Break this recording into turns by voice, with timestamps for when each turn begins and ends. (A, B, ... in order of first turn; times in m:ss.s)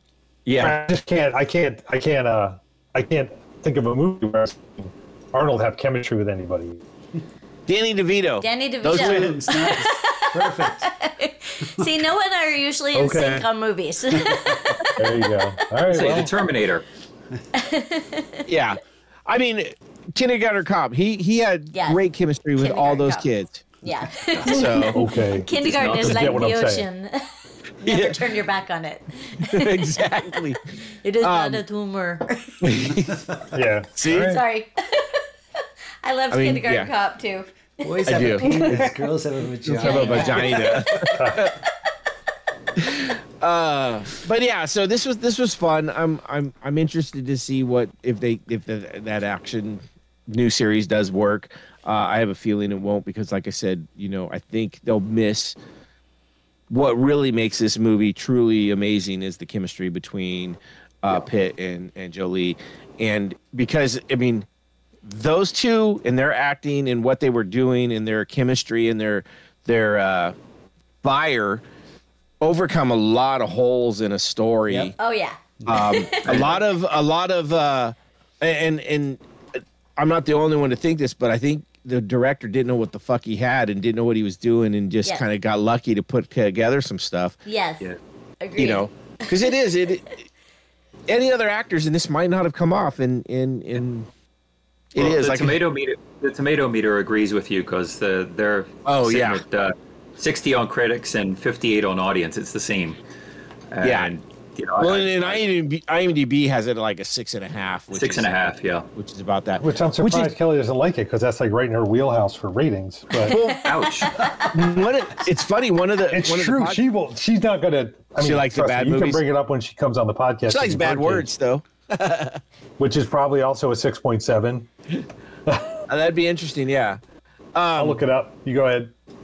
0:00.5-0:00.8 A
0:00.6-0:06.8 B
0:07.7-0:09.5 A
0:08.4-0:15.4 C
0:08.8-0:10.9 D
0:12.9-0:13.5 B
0:15.0-0:16.3 B
0:15.9-0:16.8 E
0:17.5-0:18.4 C
0:18.5-0:23.6 A
0:21.7-0:22.0 C
0:22.6-0:23.3 C
0:23.8-0:27.2 C
0:24.4-0:25.0 A
0:24.9-0:26.8 B
0:25.6-0:26.5 E
0:27.8-0:30.2 C
0:27.9-0:28.2 A
0:29.5-0:30.6 A
0:31.0-0:32.7 C
0:31.2-0:31.6 A
0:32.6-0:33.1 A
0:32.9-0:33.4 D
0:33.5-0:34.4 B
0:34.0-0:34.4 A
0:34.2-0:35.2 C
0:36.0-0:37.9 C
0:36.3-0:36.9 A
0:37.8-0:41.2 D
0:38.1-0:38.8 A
0:39.7-0:41.6 A
0:39.8-0:40.9 C
0:41.2-0:41.4 B
0:42.8-0:55.6 A
0:56.7-1:04.5 A
1:05.0-1:10.4 A
1:11.0-1:11.6 A
1:12.4-1:14.9 A
1:15.0-1:16.4 C
1:15.6-1:15.9 D
1:15.7-1:27.4 A
1:16.2-1:16.6 E
1:27.5-1:27.9 C
1:28.4-1:29.6 C
1:28.6-1:30.2 A
1:31.1-1:34.1 A
1:34.9-1:35.6 A
1:35.0-1:43.0 E
1:38.8-1:39.4 A
1:43.7-1:45.4 E
1:43.8-1:44.1 A
1:44.8-1:48.4 A
1:47.9-1:48.9 E
1:49.0-1:50.3 A
1:49.6-1:53.4 B
1:53.2-1:53.7 A
1:53.3-1:54.5 C
1:53.6-1:54.2 E
1:54.5-1:56.8 A
1:56.1-2:01.3 B
1:58.2-1:59.2 A
2:00.5-2:02.4 A
2:02.8-2:04.7 B
2:05.9-2:07.0 A
2:07.6-2:08.0 A
2:07.8-2:08.9 B